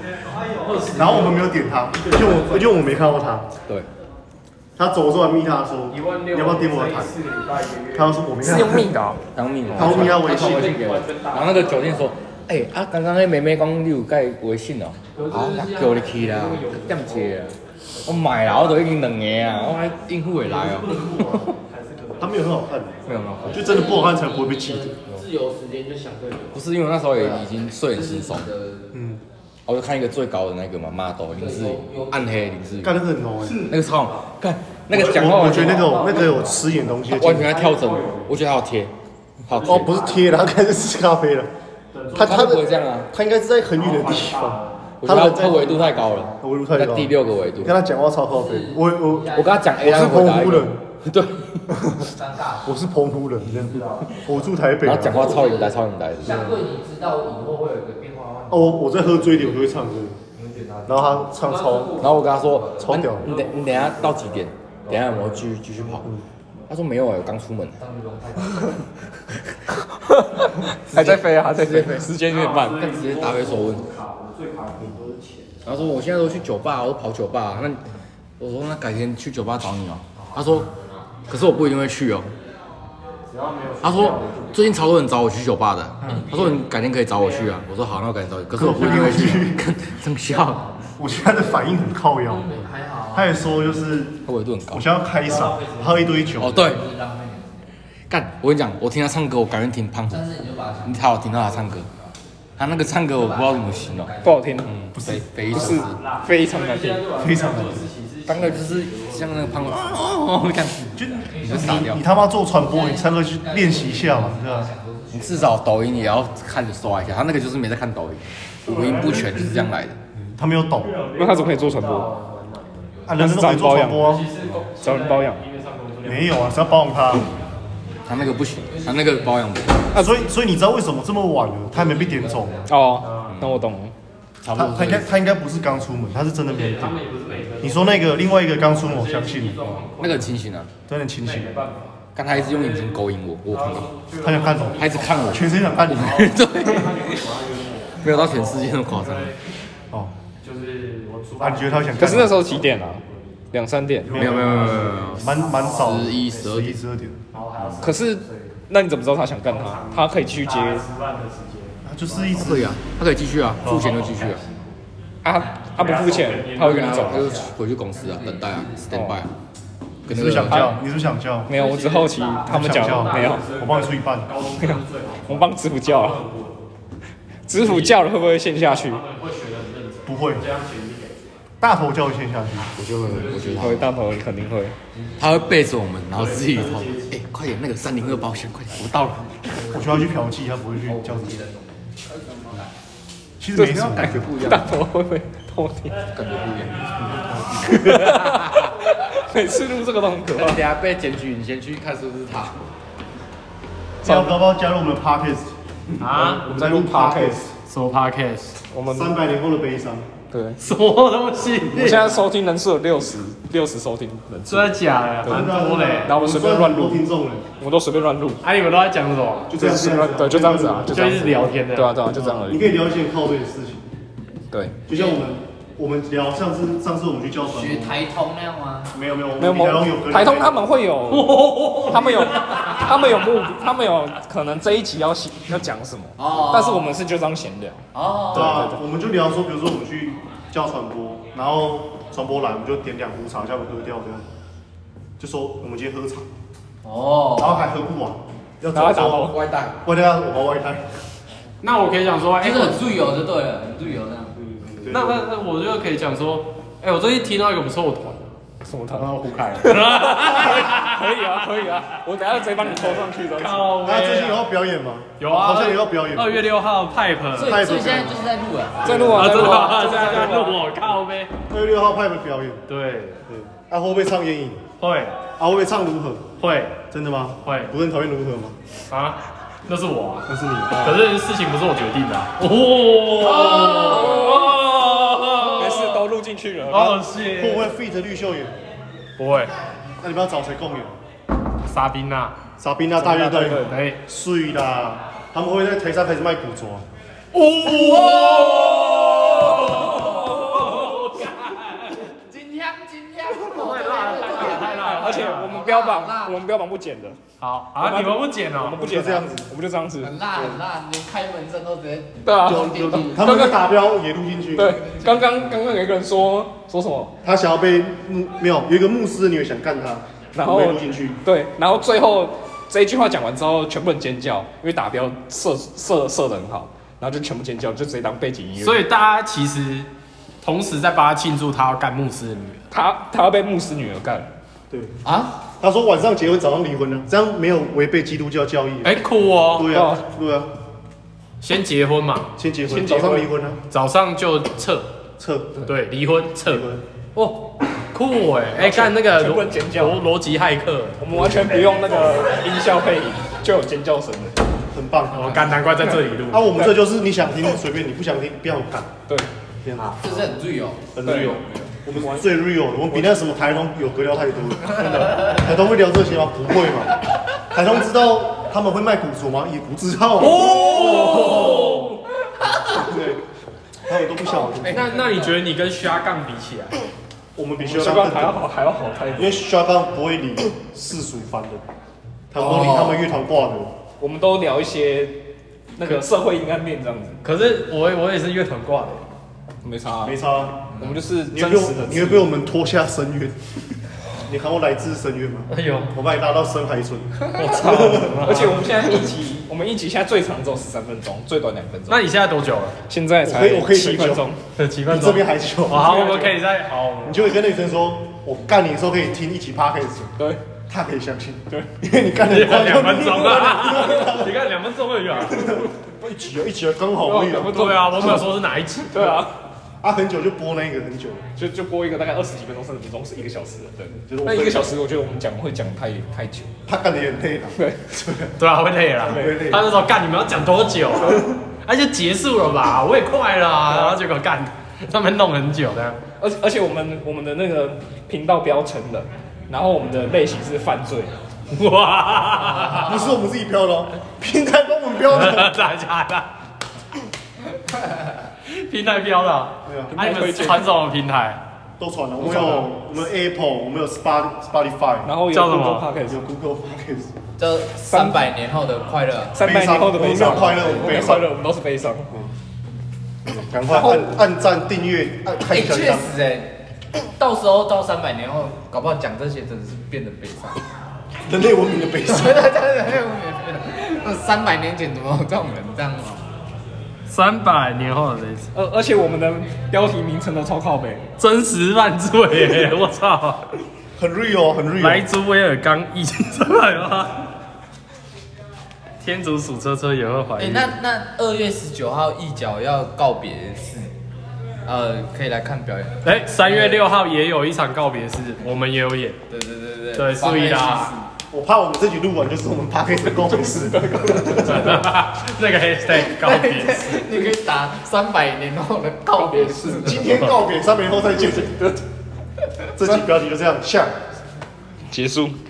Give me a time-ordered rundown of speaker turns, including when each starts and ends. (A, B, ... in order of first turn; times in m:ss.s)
0:00.3-0:01.4 A
0:00.9-0:03.5 B
0:01.9-0:02.9 A
0:04.8-0:07.1 B
0:05.9-0:08.3 A
0:07.9-0:08.9 B
0:08.4-0:09.2 C
0:09.3-0:21.4 D
0:09.7-0:12.0 A
0:09.7-0:10.8 B
0:15.1-0:15.6 A
0:15.3-0:17.4 E
0:18.5-0:18.9 E
0:20.4-0:22.4 A
0:22.2-0:25.0 B
0:23.0-0:23.8 D
0:23.5-0:26.6 E
0:26.5-0:28.5 D
0:27.1-0:29.0 E
0:28.9-0:29.2 B
0:29.6-0:33.0 D
0:31.3-0:32.6 E
0:32.8-0:33.6 B
0:33.4-0:34.2 A
0:33.7-0:35.9 D
0:34.9-0:37.5 B
0:35.0-0:36.8 E
0:35.0-0:36.3 A
0:37.1-0:38.9 D
0:37.3-0:38.3 A
0:39.4-0:39.9 D
0:39.5-0:40.3 A
0:39.6-0:41.5 B
0:41.9-0:42.8 A
0:42.1-0:45.8 B
0:42.1-0:43.1 D
0:43.7-0:44.8 A
0:45.0-0:47.8 D
0:46.4-0:50.8 B
0:48.3-0:49.7 E
0:49.3-0:51.8 D
0:51.8-0:52.0 B
0:52.0-0:52.8 E
0:52.6-0:55.4 B
0:53.7-0:54.0 E
0:54.8-0:56.4 D
0:55.0-0:59.8 E
0:56.2-0:56.6 B
0:58.5-1:00.2 B
1:00.3-1:06.1 E
1:00.9-1:02.0 B
1:02.0-1:06.1 D
1:02.8-1:03.3 B
1:06.7-1:07.8 D
1:07.8-1:09.0 E
1:10.0-1:12.9 C
1:10.9-1:12.1 D
1:12.3-1:15.6 A
1:12.7-1:13.9 D
1:15.6-1:17.8 D
1:18.4-1:20.7 D
1:21.3-1:22.3 D
1:23.3-1:24.8 A
1:23.8-1:30.6 D
1:26.0-1:26.3 B
1:26.1-1:26.6 E
1:28.5-1:29.6 B
1:28.6-1:29.3 E
1:30.2-1:31.4 E
1:31.0-1:32.5 B
1:32.2-1:33.8 E
1:33.1-1:34.2 B
1:34.2-1:34.8 D
1:34.7-1:36.7 B
1:35.2-1:37.7 E
1:36.4-1:36.8 D
1:38.1-1:40.3 D
1:40.1-1:42.1 E
1:40.8-1:41.9 D
1:42.6-1:46.0 D
1:43.1-1:44.7 E
1:44.2-1:44.7 C
1:44.9-1:45.2 B
1:45.4-1:46.1 E
1:45.5-1:47.1 C
1:46.0-1:49.8 A
1:47.2-1:47.9 B
1:48.2-1:52.0 D
1:48.3-1:48.8 E
1:51.0-1:54.7 B
1:51.1-1:52.0 E
1:52.5-1:56.3 E
1:55.1-2:00.0 D
1:58.6-1:59.7 A
2:00.1-2:01.0 B
2:00.8-2:02.9 A
2:01.1-2:02.1 C
2:02.9-2:03.2 E
2:03.1-2:04.3 B
2:03.2-2:04.1 C
2:03.9-2:06.7 A
2:04.8-2:05.4 C
2:06.0-2:07.3 B
2:08.0-2:09.8 D
2:08.2-2:10.4 E
2:09.9-2:12.7 B
2:11.7-2:13.0 E
2:12.7-2:13.9 C
2:13.0-2:13.4 A
2:13.2-2:13.6 D
2:14.4-2:15.1 D
2:14.5-2:17.0 B
2:16.5-2:20.3 A
2:17.6-2:19.8 B
2:20.0-2:20.7 D
2:20.9-2:21.5 B
2:21.2-2:29.4 A
2:22.1-2:23.9 D
2:24.2-2:26.3 B
2:24.8-2:27.2 D
2:28.0-2:29.3 D
2:30.4-2:33.4 A
2:31.4-2:32.5 B
2:32.0-2:34.1 C
2:34.0-2:37.4 B
2:34.1-2:36.5 A
2:34.1-2:36.8 D
2:37.3-2:38.6 A
2:37.8-2:40.8 C
2:39.4-2:42.3 A
2:41.8-2:42.8 B
2:42.3-2:44.4 D
2:43.6-2:44.0 B
2:43.6-2:44.7 A
2:44.0-2:44.4 E
2:45.2-2:47.4 C
2:45.4-2:45.7 E
2:45.8-2:47.5 A
2:46.6-2:49.3 D
2:47.9-2:48.9 E
2:48.9-2:49.2 C
2:50.0-2:50.7 D
2:50.1-2:51.5 B
2:50.4-2:50.8 C
2:51.5-2:53.5 C
2:51.5-2:56.7 A
2:51.9-2:52.5 E
2:52.4-2:54.3 B
2:54.6-2:56.2 C
2:57.5-2:59.0 C
2:57.5-3:01.4 A
3:00.0-3:00.4 B
3:01.6-3:02.8 B
3:02.7-3:03.9 D
3:03.1-3:03.8 A
3:03.6-3:04.8 C
3:04.9-3:05.2 A
3:05.2-3:09.5 D
3:06.1-3:07.2 A
3:09.5-3:10.0 E
3:09.7-3:11.4 B
3:10.8-3:12.7 E
3:13.4-3:14.4 B
3:13.5-3:16.1 C
3:14.0-3:14.7 D
3:16.1-3:16.8 D
3:16.7-3:17.6 B
3:17.6-3:20.6 C
3:17.8-3:18.7 D
3:20.3-3:22.6 D
3:24.0-3:25.5 B
3:24.0-3:24.3 C
3:26.0-3:26.4 A
3:26.1-3:27.5 B
3:26.4-3:27.4 C
3:27.6-3:28.6 A
3:28.7-3:29.2 C
3:28.9-3:30.1 B
3:30.3-3:30.6 C
3:30.6-3:32.1 A
3:31.7-3:35.5 C
3:34.5-3:36.1 A
3:35.2-3:37.4 B
3:36.0-3:37.0 C
3:37.6-3:38.4 C
3:38.4-3:42.0 A
3:39.5-3:41.0 B
3:40.1-3:42.6 C
3:42.1-3:43.8 B
3:44.5-3:44.8 C
3:44.9-3:48.0 B
3:44.9-3:45.2 E
3:47.4-3:48.9 E
3:48.9-3:50.6 B
3:49.4-3:51.3 C
3:51.1-3:53.1 A
3:51.9-3:58.8 C
3:52.3-3:52.8 E
3:56.2-3:56.9 E
3:57.9-3:58.6 E
3:58.3-4:04.2 B
4:05.2-4:06.3 B
4:06.8-4:07.6 E
4:07.4-4:10.9 B
4:08.7-4:09.4 C
4:09.3-4:09.8 D
4:11.6-4:12.9 A
4:12.4-4:14.4 E
4:14.6-4:15.2 B
4:14.9-4:18.4 A
4:18.6-4:23.7 C
4:18.9-4:21.7 A
4:22.7-4:24.5 A
4:23.8-4:26.4 B
4:25.2-4:27.6 A
4:27.3-4:30.1 E
4:27.4-4:28.3 B
4:28.8-4:29.5 B
4:28.8-4:30.6 C
4:29.1-4:31.3 A
4:31.5-4:32.6 B
4:32.7-4:33.2 A
4:33.3-4:34.6 B
4:34.8-4:35.2 A
4:35.4-4:36.3 B
4:36.4-4:36.8 A
4:36.9-4:38.6 B
4:37.4-4:37.7 A
4:38.9-4:46.0 A
4:40.3-4:41.0 B
4:43.6-4:44.6 C
4:45.3-4:47.0 C
4:46.7-4:47.8 A
4:47.3-4:48.5 B
4:49.2-4:49.5 A
4:50.0-4:51.0 B
4:51.6-4:52.4 A
4:52.6-4:56.8 B
4:53.0-4:53.8 C
4:53.6-4:54.0 A
4:57.3-5:00.0 A
4:57.8-4:58.2 E
4:58.3-4:59.2 C
4:59.3-5:00.8 E
5:00.0-5:01.0 C
5:00.5-5:01.9 A
5:02.0-5:06.4 E
5:03.4-5:05.5 A
5:04.7-5:07.2 C
5:07.4-5:08.8 A
5:07.8-5:10.1 C
5:08.8-5:09.5 B
5:10.0-5:13.3 E
5:10.3-5:10.6 B
5:12.2-5:12.6 C
5:12.4-5:14.8 B
5:13.2-5:13.6 C
5:14.5-5:17.1 C
5:17.2-5:21.2 B
5:20.3-5:28.9 C
5:28.6-5:29.9 A
5:30.4-5:32.7 A
5:32.7-5:34.3 C
5:35.0-5:35.4 E
5:35.6-5:39.0 B
5:38.8-5:39.7 A
5:39.5-5:40.5 B
5:39.7-5:40.0 C
5:41.4-5:44.9 A
5:42.4-5:43.6 B
5:45.2-5:45.6 B
5:45.6-5:51.6 A
5:46.4-5:46.8 B
5:48.5-5:50.0 C
5:51.0-5:54.4 C
5:54.7-5:55.5 B
5:55.1-5:56.5 A
5:56.3-5:58.9 B
5:59.6-6:00.4 B
6:00.0-6:01.7 E
6:00.9-6:11.5 B
6:01.0-6:01.4 C
6:01.9-6:02.3 C
6:04.7-6:05.3 A
6:04.9-6:05.3 E
6:10.2-6:11.9 A
6:10.3-6:12.9 C
6:12.7-6:13.2 B
6:13.8-6:15.3 B
6:14.7-6:16.8 A
6:17.4-6:18.4 B
6:17.6-6:19.3 C
6:19.2-6:21.6 B
6:22.3-6:23.7 B
6:22.3-6:22.8 C
6:24.0-6:27.2 C
6:27.2-6:29.0 A
6:29.6-6:30.2 C
6:30.0-6:30.6 B
6:30.7-6:32.3 C
6:30.7-6:31.0 E
6:31.3-6:33.4 B
6:34.2-6:38.4 B
6:35.5-6:35.9 A
6:37.4-6:39.0 A
6:37.4-6:42.0 C
6:41.9-6:42.8 A
6:42.9-6:44.4 C
6:43.2-6:44.2 B
6:44.5-6:47.2 A
6:44.9-6:46.0 B
6:45.7-6:46.4 C
6:47.0-6:50.1 B
6:50.2-6:50.5 C
6:50.7-6:54.4 B
6:52.3-6:55.5 A
6:55.2-6:58.0 B
6:57.0-6:58.3 C
6:57.4-6:59.3 A
6:58.8-6:59.3 C
6:59.8-7:01.2 B
7:01.4-7:06.5 C
7:04.0-7:04.7 B
7:06.6-7:08.3 B
7:07.6-7:07.9 C
7:08.4-7:16.0 A
7:09.0-7:09.5 C
7:09.1-7:09.7 B
7:11.0-7:11.3 C
7:13.7-7:14.0 C
7:16.2-7:21.1 C
7:21.5-7:23.1 A
7:22.7-7:25.6 B
7:25.1-7:26.3 A
7:28.4-7:31.4 A
7:29.6-7:30.0 B
7:29.9-7:30.8 C
7:31.8-7:35.1 B
7:32.2-7:32.7 C
7:35.0-7:36.2 C
7:35.3-7:35.9 A
7:36.0-7:37.1 B
7:37.4-7:41.1 E
7:37.8-7:38.4 C
7:39.3-7:42.1 C
7:39.4-7:41.3 B
7:43.2-7:46.2 B
7:43.6-7:44.1 C
7:45.4-7:50.6 E
7:51.2-7:52.5 B
7:52.1-7:56.2 E
7:57.1-7:58.5 A
7:58.5-8:01.0 C
8:01.2-8:03.4 A
8:04.0-8:05.0 B
8:04.8-8:07.3 A
8:09.0-8:10.8 A
8:10.4-8:13.9 E
8:14.6-8:16.9 E
8:16.0-8:19.2 A
8:19.3-8:21.1 E
8:19.9-8:21.0 A
8:21.3-8:24.8 B
8:23.1-8:24.8 C
8:24.4-8:27.0 A
8:25.9-8:30.1 E
8:29.1-8:30.2 C
8:29.7-8:31.6 B
8:31.3-8:31.8 C
8:32.7-8:33.9 B
8:34.9-8:35.4 C